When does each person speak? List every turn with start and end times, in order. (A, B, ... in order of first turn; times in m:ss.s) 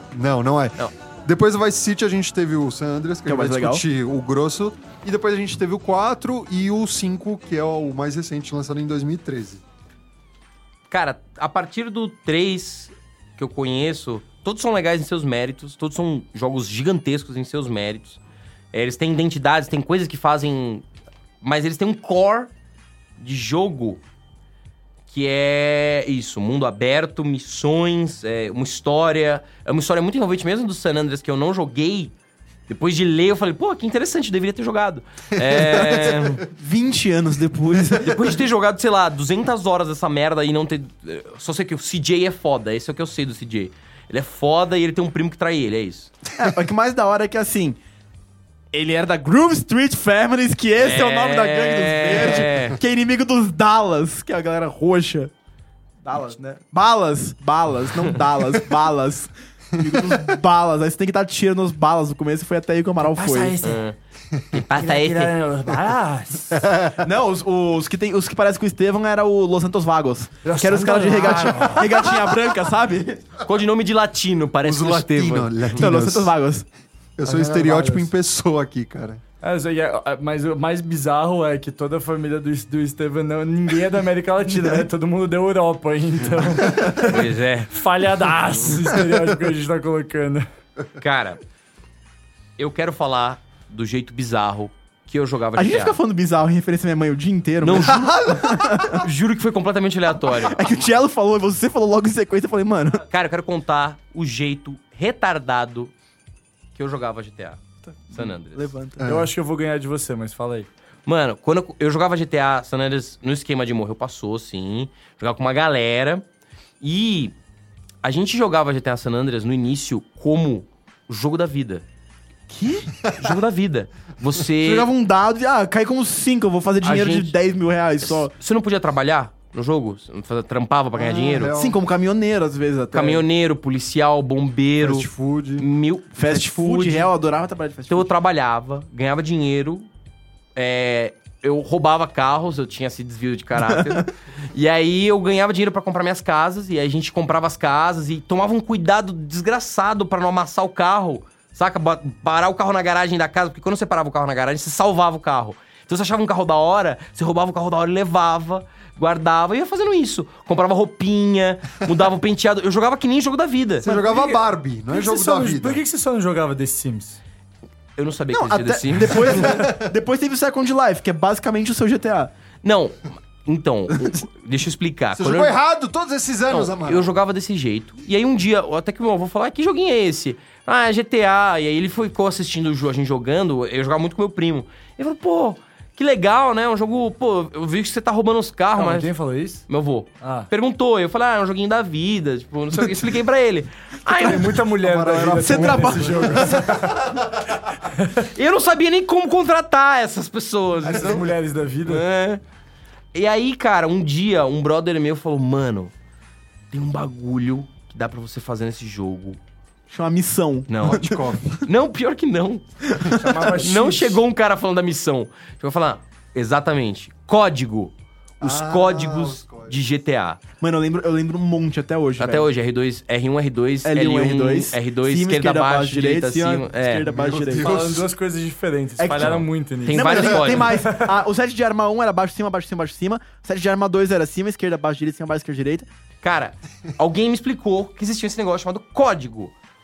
0:00.1-0:09.6 A
0:03.3-0:03.8 B
0:10.9-0:18.2 C
0:18.7-0:20.8 C
0:21.4-0:22.5 C
0:23.2-0:24.0 C
0:25.1-0:32.1 C
0:32.7-0:36.4 C
0:35.5-0:35.9 A
0:35.7-0:38.4 B
0:38.0-0:46.1 C
0:46.3-0:47.8 B
0:48.7-0:55.3 B
0:50.8-0:52.8 C
0:56.0-1:03.6 B
1:03.1-1:03.8 D
1:03.6-1:04.0 C
1:04.5-1:05.3 C
1:04.8-1:06.7 D
1:06.9-1:13.2 B
1:10.4-1:12.3 D
1:11.2-1:11.7 C
1:13.4-1:15.9 C
1:14.6-1:16.3 A
1:15.8-1:16.7 B
1:17.2-1:19.2 A
1:17.2-1:18.1 D
1:19.4-1:30.5 D
1:27.0-1:27.8 C
1:31.0-1:31.4 C
1:32.6-1:36.0 C
1:35.6-1:39.0 B
1:37.6-1:38.1 C
1:37.8-1:38.8 A
1:38.9-1:40.8 C
1:40.2-1:43.0 B
1:43.1-1:45.9 C
1:46.8-1:48.7 C
1:47.8-1:49.0 B
1:49.0-1:49.3 A
1:49.0-1:50.7 D
1:51.1-1:56.3 C
1:56.8-1:57.3 C
1:58.0-2:01.8 C
2:02.5-2:02.9 B
2:03.1-2:04.9 C
2:04.6-2:08.3 B
2:06.8-2:07.4 C
2:08.0-2:11.5 C
2:10.9-2:11.8 A
2:11.5-2:13.3 B
2:12.9-2:15.1 C
2:14.8-2:15.7 A
2:15.6-2:17.1 C
2:16.2-2:18.1 B
2:17.9-2:19.9 C
2:20.6-2:43.9 C
2:23.6-2:24.0 B
2:43.8-2:45.8 A
2:43.8-2:47.2 D
2:48.0-2:49.6 C
2:48.3-2:52.3 B
2:49.4-2:49.9 A
2:52.6-2:55.6 C
2:55.2-2:57.1 A
2:56.5-3:09.1 C
3:08.8-3:09.6 D
3:09.7-3:14.6 C
3:10.2-3:10.5 D
3:14.2-3:17.1 D
3:14.8-3:17.2 A
3:15.4-3:16.5 B
3:17.8-3:18.3 D
3:18.3-3:21.2 C
3:20.8-3:22.0 D
3:20.9-3:21.2 A
3:21.8-3:22.4 C
3:23.1-3:25.9 C
3:26.7-3:29.4 C
3:29.9-3:31.3 B
3:30.7-3:32.6 C
3:30.8-3:31.6 A
3:32.9-3:33.5 B
3:33.1-3:34.2 D
3:33.6-3:40.4 C
3:38.4-3:39.8 A
3:40.6-3:42.5 B
3:42.2-3:47.1 C
3:43.8-3:47.8 B
3:47.0-3:48.1 A
3:47.6-3:51.2 D
3:49.0-3:55.9 B
3:49.2-3:50.8 C
3:56.2-3:59.5 C